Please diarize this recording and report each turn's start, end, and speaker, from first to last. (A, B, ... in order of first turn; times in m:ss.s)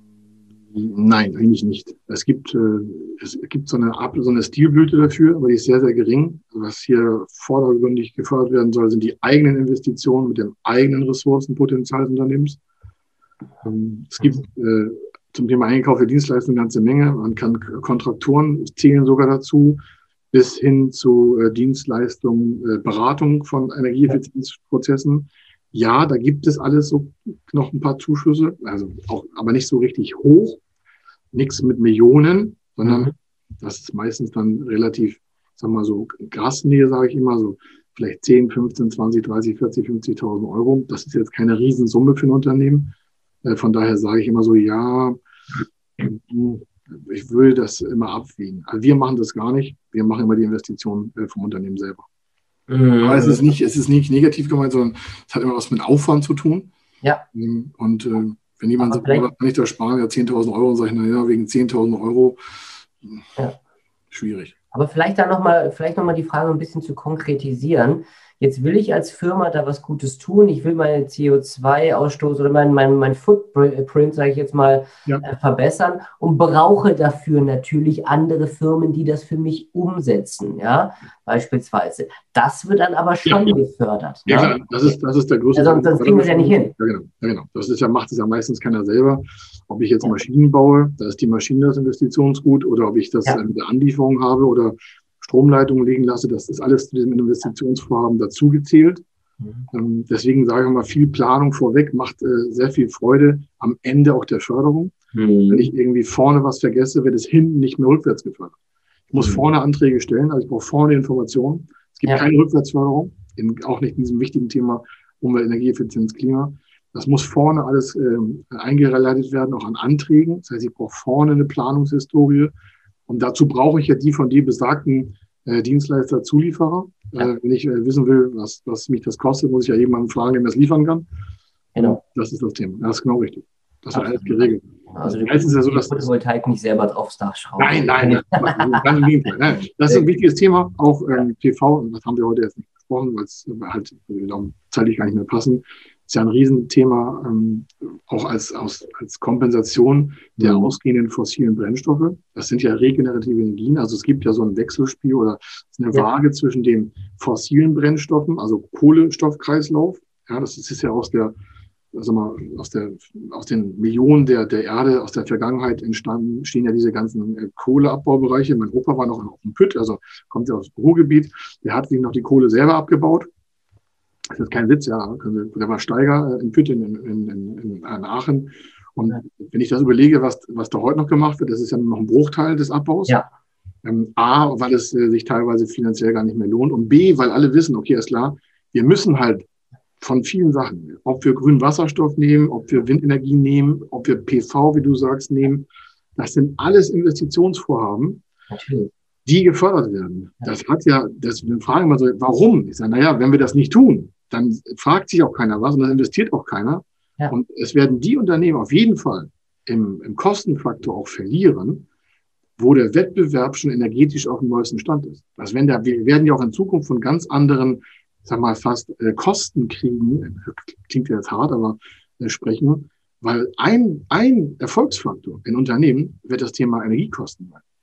0:00.7-0:12.6 A
0:13.6-0:19.8 A
0:20.3-0:30.6 A
0:31.3-0:42.9 A
0:32.8-0:33.1 B
0:43.4-0:45.2 A
0:46.0-0:52.1 A
0:52.7-0:53.4 B
0:53.0-0:56.7 A
0:57.3-1:02.4 A
0:58.8-0:59.3 B
1:04.1-1:04.5 A
1:04.7-1:24.9 B
1:23.2-1:23.6 A
1:24.2-1:39.0 A
1:25.5-1:26.7 B
1:39.7-1:44.9 A
1:45.1-1:45.7 B
1:45.5-1:48.6 A
1:49.1-2:02.5 A
2:03.1-2:11.1 A
2:11.7-2:12.0 B
2:11.8-2:16.1 A
2:13.9-2:18.9 B
2:17.6-2:41.3 A
2:30.4-2:30.7 B
2:41.9-2:53.3 A
2:54.3-3:03.2 A
3:03.8-3:09.5 A
3:10.0-3:18.2 A
3:18.5-3:18.9 B
3:19.2-3:31.8 A
3:32.6-3:47.6 A